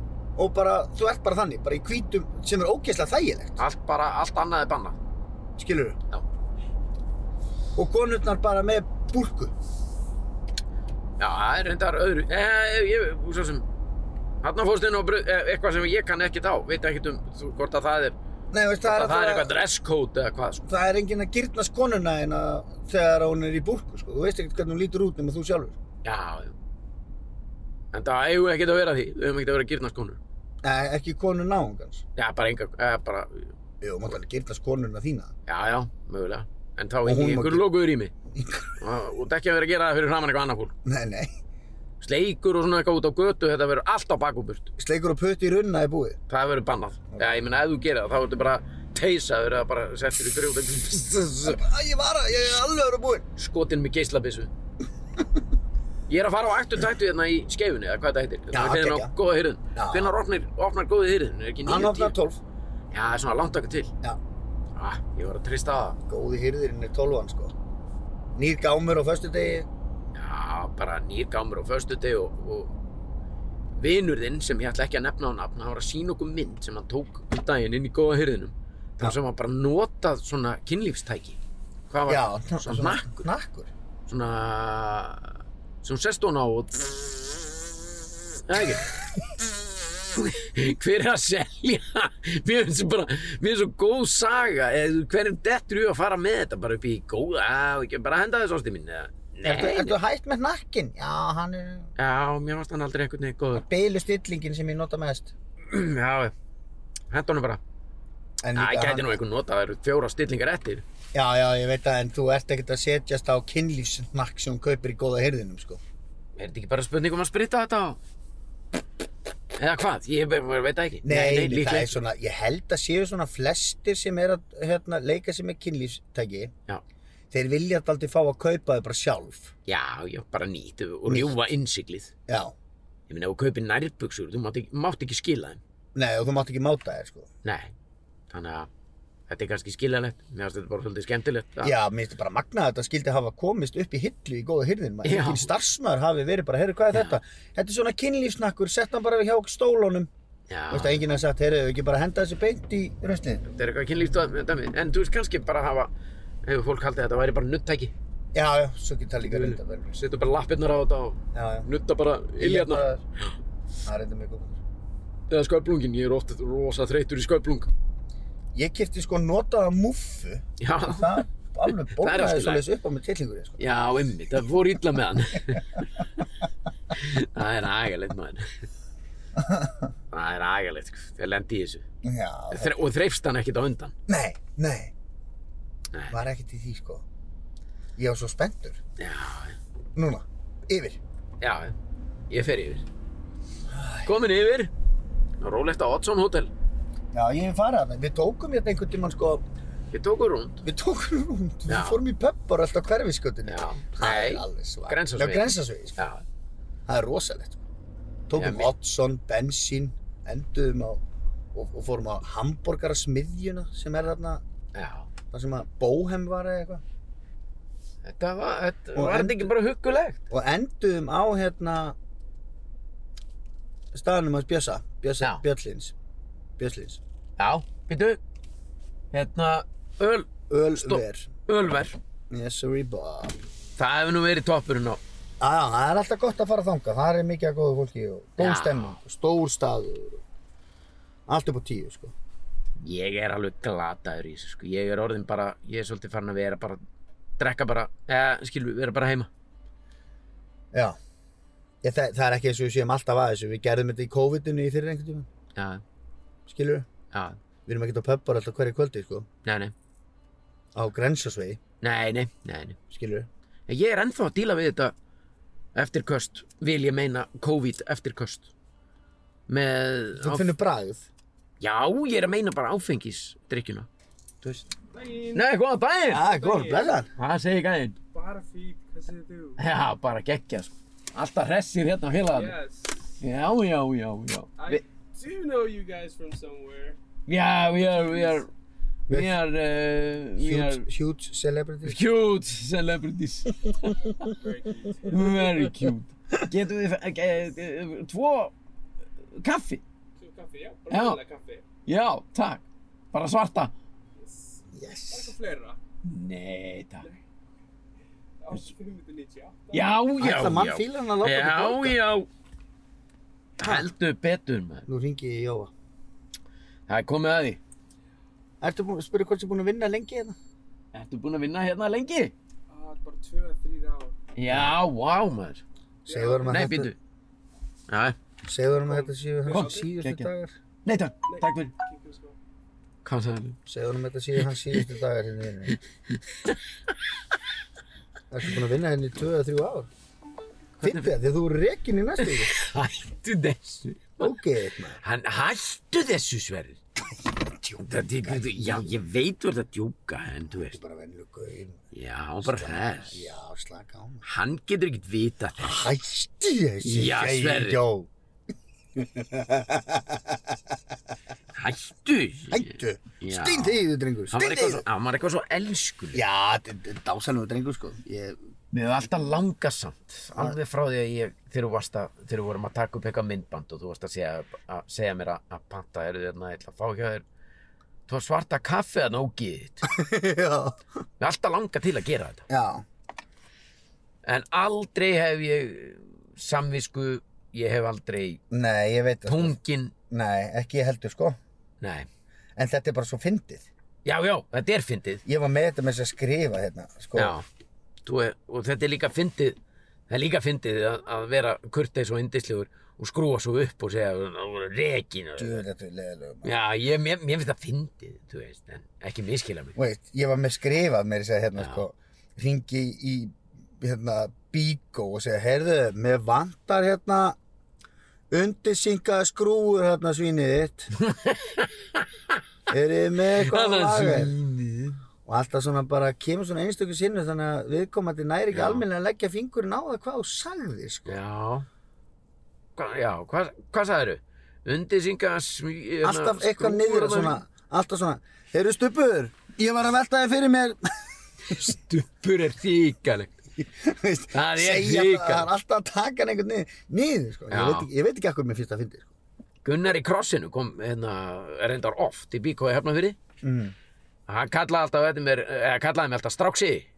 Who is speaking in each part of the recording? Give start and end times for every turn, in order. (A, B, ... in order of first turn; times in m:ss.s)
0:00.4-0:03.6 A
0:03.6-0:05.0 B
0:05.6-0:06.0 A
0:07.8-0:09.5 A
0:11.2-0:13.6 B
0:14.4-0:18.2 B
0:18.5-0:19.5 A
0:18.8-0:20.6 B
0:20.6-0:25.8 A
0:26.0-0:26.5 B
0:27.9-0:30.2 B
0:30.6-0:32.0 A
0:32.2-0:33.5 B
0:33.8-0:35.3 A
0:35.5-0:38.1 B
0:37.0-0:37.7 A
0:38.3-0:38.7 A
0:38.8-0:40.7 B
0:40.8-0:41.3 A
0:42.0-0:44.7 B
0:44.8-0:46.2 A
0:46.3-0:51.6 B
0:51.4-0:53.2 A
0:53.4-0:54.5 B
0:56.1-1:02.2 B
0:58.5-0:59.1 A
0:59.7-1:00.1 A
1:01.6-1:02.4 A
1:02.9-1:03.9 B
1:04.8-1:06.0 B
1:06.1-1:07.5 A
1:08.4-1:09.7 A
1:10.1-1:12.7 B
1:13.8-1:21.4 B
1:21.9-1:23.3 B
1:22.1-1:23.7 A
1:24.1-1:27.2 B
1:28.4-1:28.9 B
1:30.1-1:40.0 B
1:39.4-1:41.9 A
1:42.0-1:43.6 B
1:43.5-1:45.3 A
1:45.7-1:46.3 B
1:47.1-1:47.6 B
1:48.4-1:49.2 A
1:48.5-1:50.8 B
1:51.1-1:55.8 A
1:56.4-1:58.0 B
1:59.6-2:02.0 B
2:01.0-2:06.5 A
2:07.3-2:09.5 A
2:09.6-2:12.1 B
2:11.1-2:11.4 A
2:12.3-2:12.5 A
2:13.1-2:15.6 B
2:15.9-2:17.3 A
2:17.4-2:17.7 B
2:18.3-2:18.7 B
2:19.3-2:21.7 B
2:21.6-2:30.1 A
2:25.0-2:25.5 B
2:30.5-2:31.0 B
2:30.7-2:33.4 A
2:33.4-2:35.9 B
2:36.4-2:37.9 B
2:38.3-2:39.9 A
2:39.2-2:43.3 B
2:41.3-2:41.7 A
2:42.4-2:43.0 A
2:43.9-2:44.6 A
2:45.3-2:47.7 B
2:48.5-2:53.7 A
2:50.6-2:51.2 B
2:51.9-2:52.6 B
2:53.6-2:55.8 B
2:56.9-2:58.5 B
2:59.4-2:59.9 A
3:00.1-3:01.8 B
3:02.0-3:02.8 A
3:02.5-3:03.9 B
3:04.1-3:04.9 A
3:05.9-3:06.2 B
3:06.1-3:07.0 A
3:08.0-3:08.8 A
3:09.0-3:09.6 B
3:09.9-3:11.0 A
3:11.4-3:11.7 B
3:12.3-3:12.9 B
3:13.7-3:14.1 A
3:14.0-3:14.7 B
3:15.4-3:16.5 B
3:17.1-3:19.4 A
3:19.9-3:20.6 B
3:20.6-3:26.0 A
3:21.7-3:22.0 B
3:23.4-3:26.2 B
3:26.9-3:27.6 A
3:28.3-3:31.0 A
3:28.3-3:28.7 B
3:31.5-3:34.4 A
3:34.7-3:35.1 B
3:35.3-3:36.8 A
3:38.0-3:40.2 B
3:38.9-3:39.5 A
3:40.3-3:42.0 A
3:43.9-3:45.9 A
3:46.6-3:47.0 A
3:47.4-3:48.2 B
3:49.1-3:52.0 B
3:50.5-3:51.3 A
3:52.3-3:53.4 A
3:53.8-3:55.0 B
3:55.4-4:00.2 A
3:58.4-3:59.0 B
4:01.3-4:02.1 A
4:02.8-4:06.8 B
4:07.4-4:09.3 B
4:10.7-4:11.0 A
4:11.8-4:15.3 A
4:15.5-4:15.8 B
4:16.5-4:16.9 A
4:17.1-4:17.4 B
4:17.6-4:19.3 A
4:19.4-4:19.7 B
4:20.7-4:21.6 A
4:21.8-4:22.8 B
4:22.9-4:23.3 A
4:23.7-4:24.9 B
4:25.7-4:28.5 B
4:29.5-4:30.5 B
4:30.2-4:31.1 A
4:31.6-4:33.9 B
4:34.9-4:35.5 C
4:35.3-4:36.2 B
4:36.1-4:37.1 A
4:36.1-4:37.0 C
4:37.2-4:38.0 B
4:38.1-4:39.6 C
4:39.6-4:42.6 B
4:42.3-4:43.2 C
4:43.2-4:44.8 B
4:44.6-4:47.0 C
4:47.3-4:48.5 B
4:47.8-4:48.4 C
4:49.1-4:49.3 A
4:49.1-4:50.9 B
4:50.4-4:52.0 A
4:51.8-4:54.1 B
4:54.2-4:55.4 C
4:55.1-4:58.5 B
4:59.4-4:59.8 B
5:00.2-5:01.6 C
5:00.9-5:01.2 B
5:01.9-5:03.7 B
5:04.2-5:05.8 C
5:04.7-5:05.4 A
5:06.0-5:07.1 B
5:08.4-5:09.9 C
5:09.7-5:12.3 B
5:10.2-5:12.0 A
5:13.6-5:14.8 B
5:13.6-5:13.9 A
5:14.9-5:15.7 A
5:16.9-5:17.6 B
5:18.6-5:20.4 A
5:20.9-5:22.3 B
5:22.7-5:24.2 C
5:24.4-5:25.6 B
5:26.1-5:26.9 A
5:26.1-5:26.7 C
5:26.4-5:27.0 B
5:27.9-5:28.2 B
5:28.4-5:30.5 A
5:28.8-5:29.9 C
5:29.5-5:30.3 B
5:30.8-5:31.7 B
5:31.3-5:32.4 C
5:33.0-5:33.6 B
5:33.7-5:35.8 A
5:36.1-5:36.6 B
5:38.3-5:39.9 A
5:40.8-5:41.1 B
5:40.8-5:42.5 A
5:42.2-5:44.3 B
5:44.2-5:45.0 A
5:45.0-5:46.8 B
5:47.3-5:48.8 A
5:47.8-5:50.8 B
5:50.5-5:51.8 A
5:51.9-5:53.3 B
5:52.4-5:54.2 A
5:54.2-5:55.9 B
5:55.6-5:58.1 A
5:56.8-5:57.8 B
5:59.0-6:00.6 A
6:01.5-6:06.2 B
6:02.5-6:04.8 A
6:06.1-6:08.4 A
6:08.7-6:17.2 B
6:18.1-6:19.9 B
6:19.9-6:20.8 A
6:21.2-6:22.4 B
6:22.5-6:22.8 A
6:24.2-6:28.4 B
6:28.5-6:29.6 A
6:29.2-6:29.9 B
6:30.1-6:31.4 A
6:31.8-6:32.1 B
6:32.6-6:33.7 A
6:34.0-6:35.2 B
6:35.2-6:37.4 A
6:37.1-6:37.4 B
6:38.0-6:39.6 B
6:40.1-6:45.6 B
6:45.4-6:46.5 A
6:46.4-6:49.8 B
6:49.8-6:57.4 A
6:51.6-6:51.8 B
6:58.3-7:00.9 A
7:01.0-7:01.7 B
7:02.7-7:04.4 A
7:03.4-7:05.0 B
7:05.2-7:11.2 A
7:08.5-7:08.8 B
7:11.1-7:11.7 B
7:12.8-7:17.4 B
7:16.0-7:21.0 A
7:21.5-7:23.3 B
7:23.6-7:29.1 A
7:24.3-7:25.5 B
7:27.5-7:27.9 B
7:29.6-7:33.2 B
7:33.4-7:33.7 A
7:34.3-7:36.9 B